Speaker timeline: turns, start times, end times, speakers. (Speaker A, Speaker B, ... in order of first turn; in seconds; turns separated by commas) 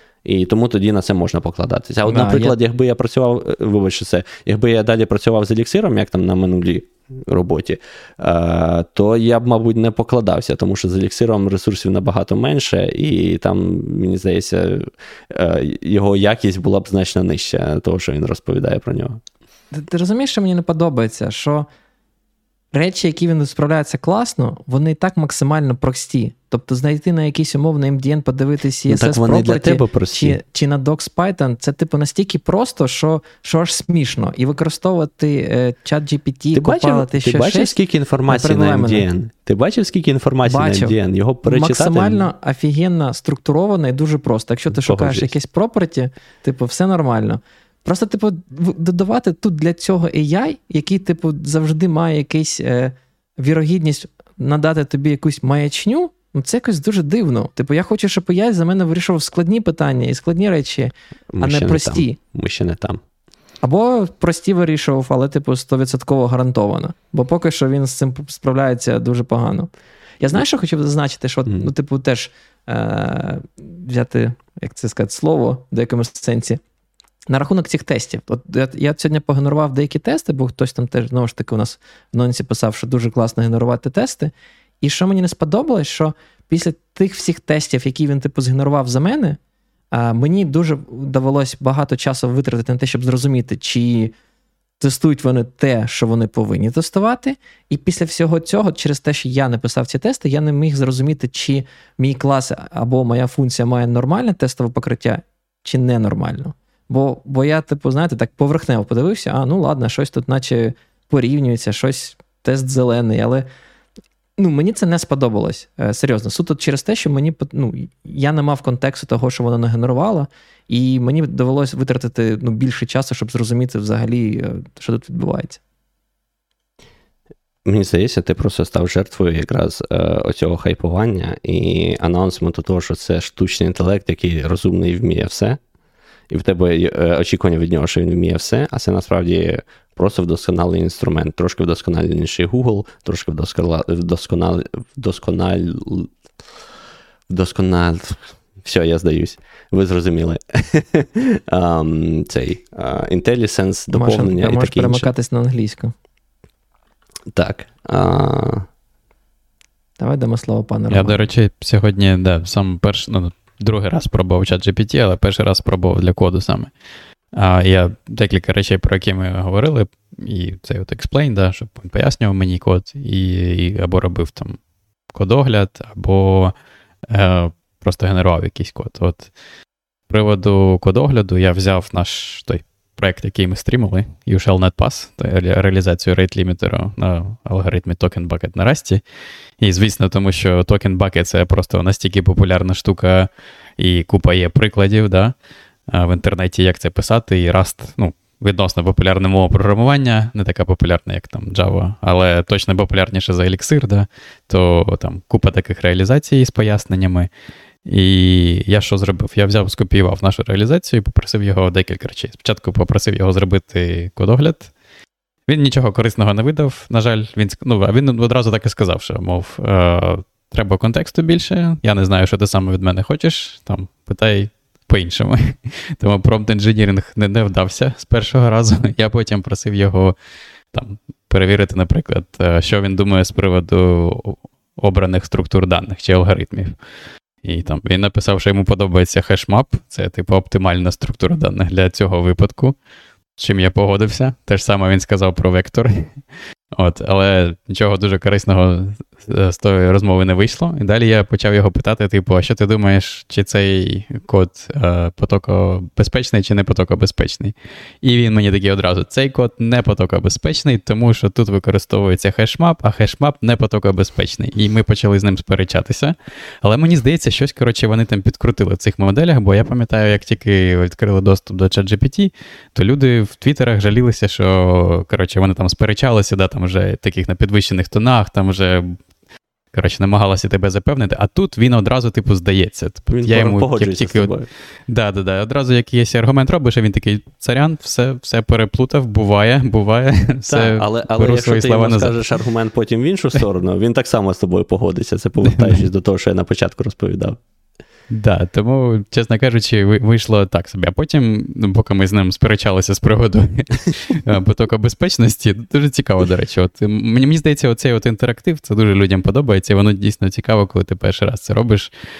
Speaker A: 0.2-19.2, Speaker B: 2.1-2.5, Speaker B: 19.7-21.7, Speaker B: 22.7-37.8, Speaker A: 28.9-30.4, Speaker A: 36.5-42.3, Speaker B: 38.3-39.1, Speaker B: 40.5-62.2, Speaker A: 44.7-45.3, Speaker A: 61.3-63.0, Speaker B: 63.6-76.6, Speaker B: 77.3-89.4, Speaker B: 89.9-94.1, Speaker B: 94.8-113.5, Speaker B: 114.4-125.6, Speaker A: 127.7-135.6, Speaker A: 136.3-146.1, Speaker A: 147.3-155.1, Speaker B: 153.9-155.9, Speaker A: 157.3-158.7, Speaker B: 160.0-161.2, Speaker C: 160.9-166.7, Speaker C: 167.3-174.6, Speaker C: 175.1-176.6, Speaker C: 177.1-179.3, Speaker C: 180.1-189.0, Speaker C: 189.6-195.4, Speaker C: 195.9-207.3, Speaker C: 207.8-214.7, Speaker C: 215.5-230.2, Speaker C: 230.7-236.8, Speaker C: 237.4-242.8, Speaker C: 243.4-246.2, Speaker C: 246.7-279.0, Speaker C: 279.7-284.3, Speaker A: 283.1-284.5, Speaker C: 284.9-292.4, Speaker A: 290.5-297.4, Speaker C: 295.5-295.8, Speaker C: 298.1-311.9